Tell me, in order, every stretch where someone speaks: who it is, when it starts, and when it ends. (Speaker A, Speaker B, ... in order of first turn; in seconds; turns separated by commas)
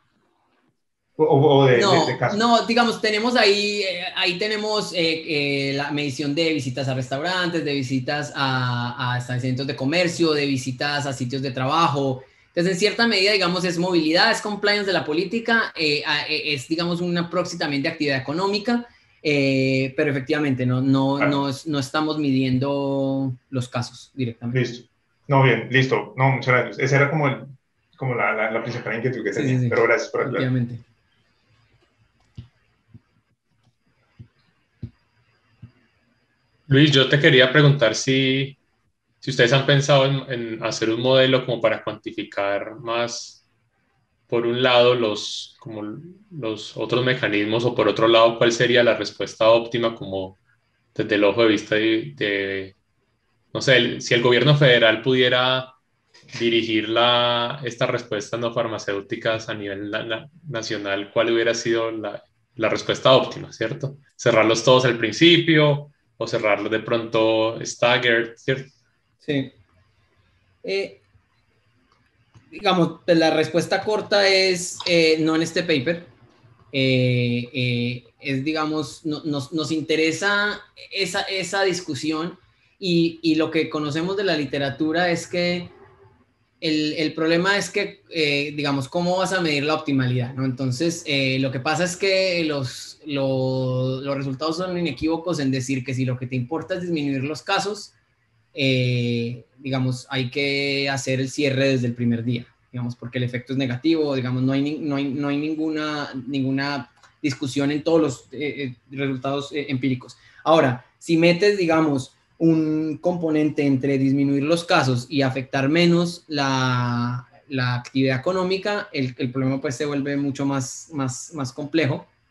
Speaker A: 1.2-2.4, Speaker B: 1.7-24.6, Speaker A: 24.5-30.5, Speaker B: 29.3-30.8, Speaker C: 36.7-38.6, Speaker C: 39.2-43.4, Speaker C: 44.3-50.4, Speaker C: 51.0-52.8, Speaker C: 53.5-55.8, Speaker C: 56.3-68.7, Speaker B: 69.2-69.5, Speaker B: 70.6-71.0, Speaker B: 72.5-76.1, Speaker B: 76.7-85.7, Speaker B: 86.6-97.9, Speaker B: 98.5-122.1